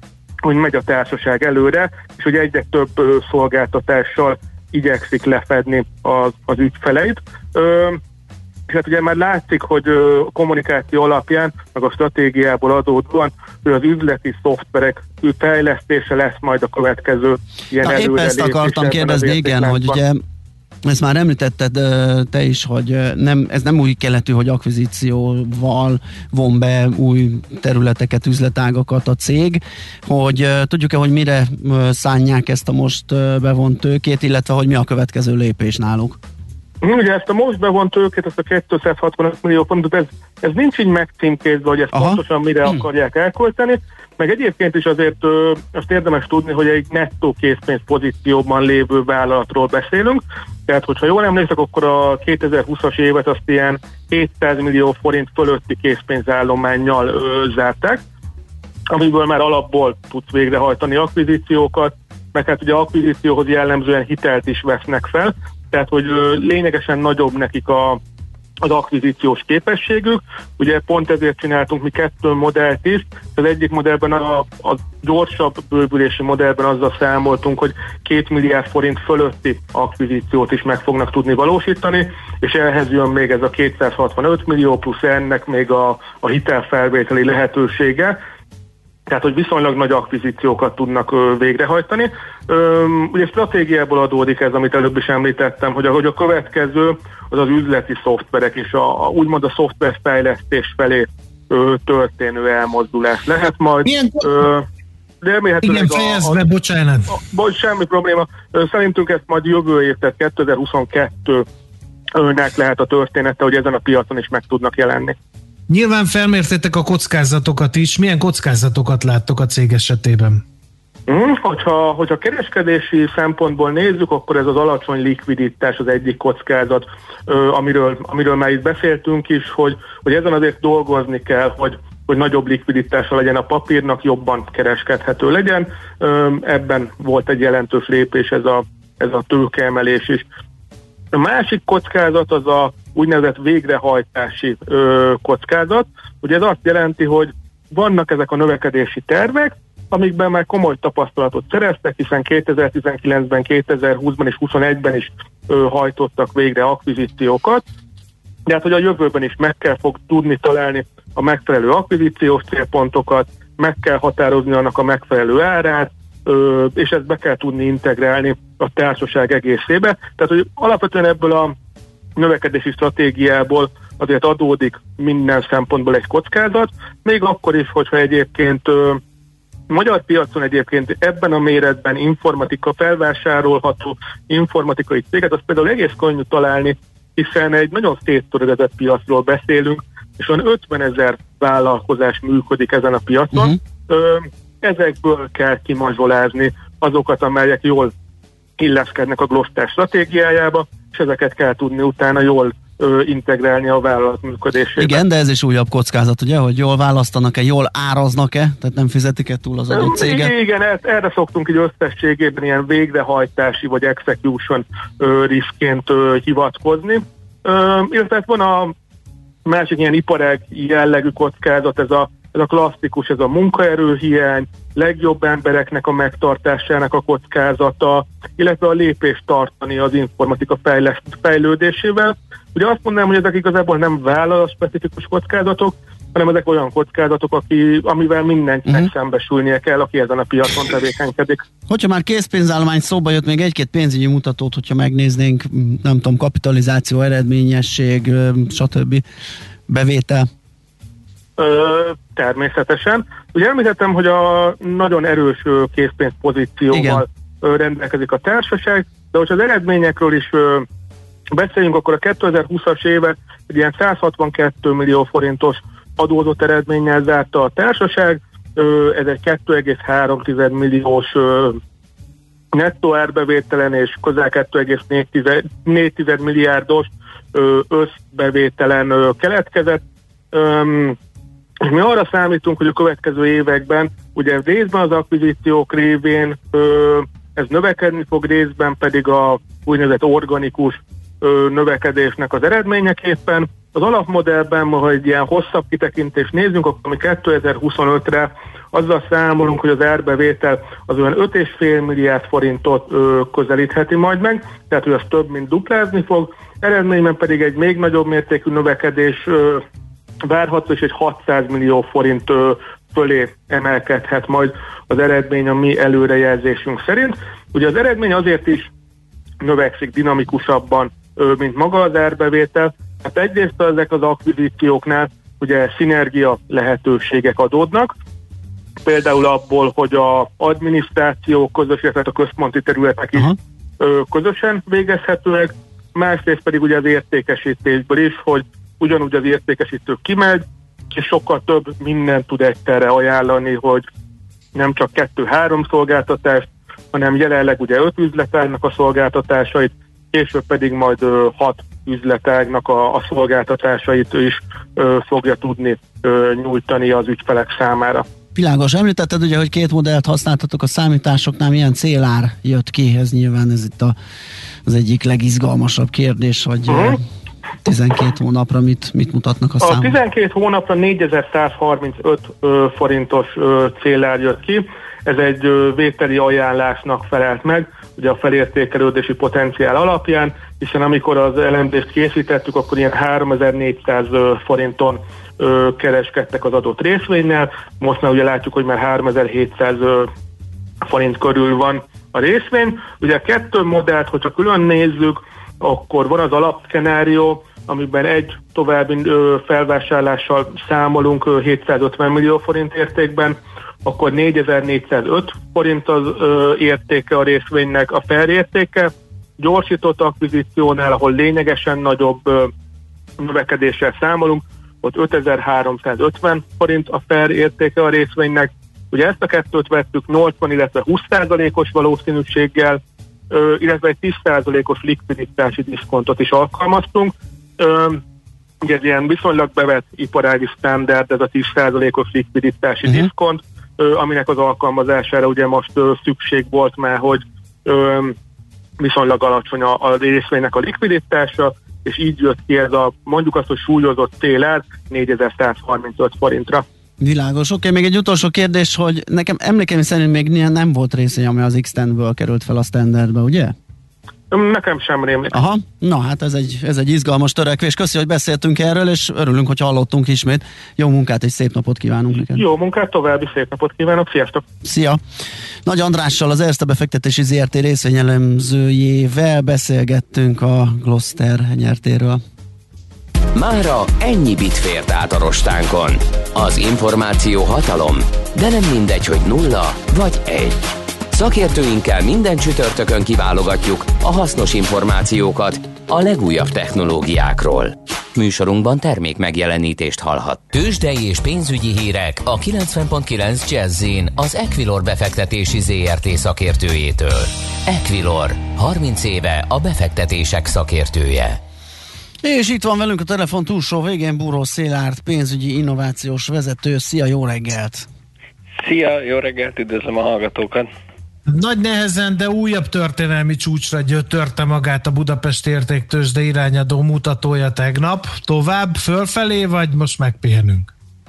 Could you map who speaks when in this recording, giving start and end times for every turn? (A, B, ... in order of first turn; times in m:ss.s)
0:00.4-0:08.0 A
0:08.7-0:20.0 A
0:17.8-0:20.2 B
0:20.8-0:36.2 B
0:36.8-0:58.0 A
0:41.9-0:42.8 B
0:58.9-1:08.0 A
1:08.6-1:28.2 A
1:29.1-1:44.6 A
1:43.8-1:44.3 C
1:45.2-1:46.4 A
1:45.6-1:47.1 C
1:47.1-1:51.4 A
1:52.1-1:55.2 A
1:55.7-2:00.4 C
2:01.1-2:20.2 A
2:21.1-2:37.6 A
2:38.5-2:51.5 A
2:52.2-2:59.0 A
2:59.7-3:17.9 A
3:18.6-3:25.0 A
3:24.8-3:30.3 B
3:29.7-3:38.7 A
3:39.4-4:01.4 A
4:01.7-4:09.0 B
4:09.7-4:10.3 B
4:11.4-4:20.6 A
4:16.7-4:17.0 B
4:21.3-4:31.6 A
4:32.5-4:41.0 A
4:41.6-5:09.6 A
5:10.2-5:18.7 A
5:19.4-5:27.9 A
5:28.8-5:43.8 A
5:44.5-5:58.0 A
5:58.3-6:04.0 B
6:04.6-6:07.0 B
6:06.7-6:07.0 A
6:07.6-6:10.0 B
6:09.6-6:30.1 A
6:30.8-6:52.5 A
6:53.2-7:02.8 A
7:03.3-7:08.0 A
7:08.6-7:18.2 A
7:18.8-7:26.6 A
7:27.0-7:33.5 B
7:34.3-7:35.4 A
7:35.3-7:42.4 B
7:42.1-7:44.4 A
7:44.6-7:45.0 B
7:45.6-7:52.2 B
7:53.3-8:21.4 D
8:22.2-8:27.9 B
8:28.6-8:30.7 E
8:31.3-8:40.7 C